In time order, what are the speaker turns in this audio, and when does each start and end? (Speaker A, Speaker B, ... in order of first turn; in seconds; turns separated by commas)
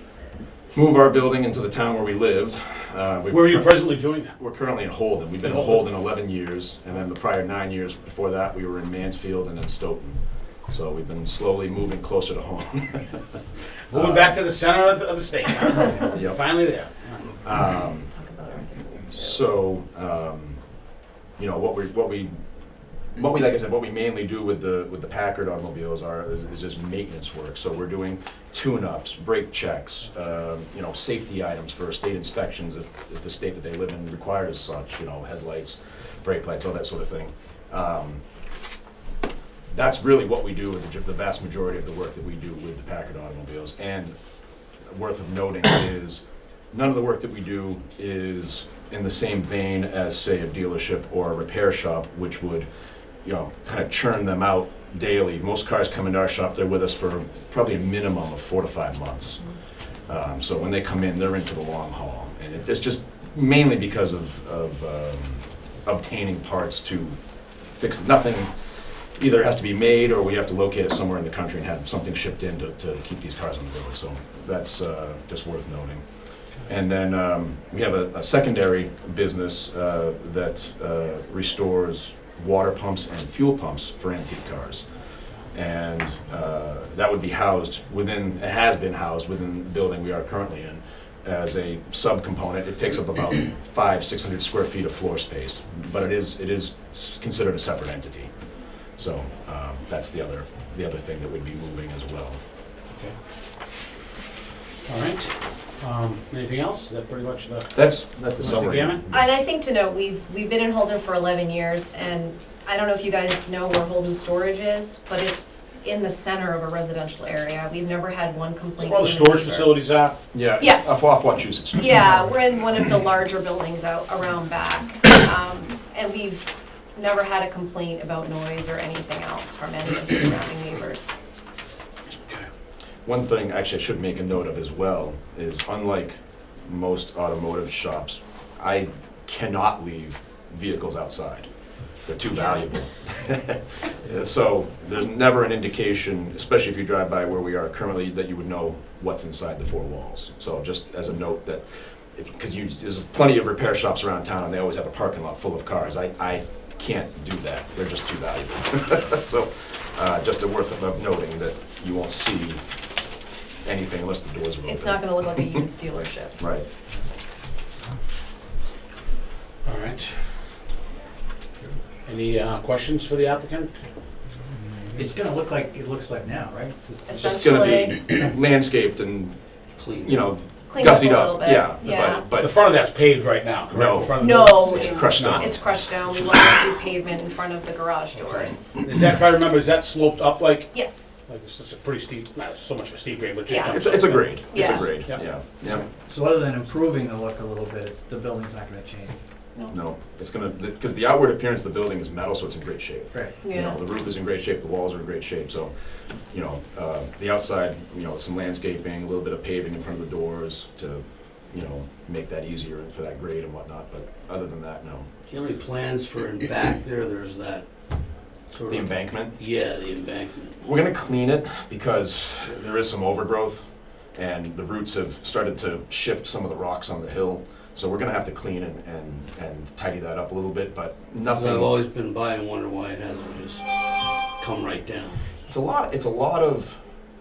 Speaker A: 0.7-3.8, Speaker B: 3.3-4.3, Speaker A: 4.4-13.2, Speaker B: 5.4-5.9, Speaker B: 13.9-17.4, Speaker A: 13.9-14.3, Speaker A: 16.1-16.4, Speaker A: 17.4-18.1, Speaker C: 18.1-19.5, Speaker A: 19.1-20.6, Speaker A: 21.4-22.4, Speaker A: 23.1-38.2, Speaker A: 39.7-44.1, Speaker A: 44.9-52.7, Speaker A: 53.2-59.4, Speaker A: 60.1-84.9, Speaker A: 85.5-98.3, Speaker A: 98.9-102.4, Speaker B: 104.9-107.8, Speaker A: 107.7-109.3, Speaker B: 108.4-109.0, Speaker C: 109.1-119.7, Speaker B: 118.8-120.2, Speaker A: 120.3-122.3, Speaker C: 120.6-121.2, Speaker C: 121.7-131.1, Speaker A: 133.1-141.5, Speaker A: 142.0-162.6, Speaker A: 163.6-165.2, Speaker C: 164.6-166.4, Speaker A: 166.4-166.7, Speaker B: 169.6-170.4, Speaker B: 172.0-173.7, Speaker D: 174.6-177.7, Speaker C: 177.1-178.0, Speaker A: 177.2-179.4, Speaker E: 179.8-180.3, Speaker A: 180.0-182.5, Speaker C: 180.7-182.2, Speaker B: 182.3-185.6, Speaker A: 183.7-185.7, Speaker C: 184.1-188.8, Speaker B: 186.3-186.6, Speaker B: 188.8-190.7, Speaker C: 190.7-191.2, Speaker B: 191.2-195.2, Speaker C: 193.5-193.8, Speaker A: 193.7-195.8, Speaker C: 194.4-194.9, Speaker D: 196.0-199.2, Speaker A: 199.7-205.7, Speaker C: 203.4-203.8, Speaker A: 206.3-215.1, Speaker E: 215.3-217.7, Speaker E: 218.5-220.6, Speaker A: 218.7-219.4, Speaker A: 220.6-231.7, Speaker E: 231.3-235.2, Speaker A: 235.5-236.8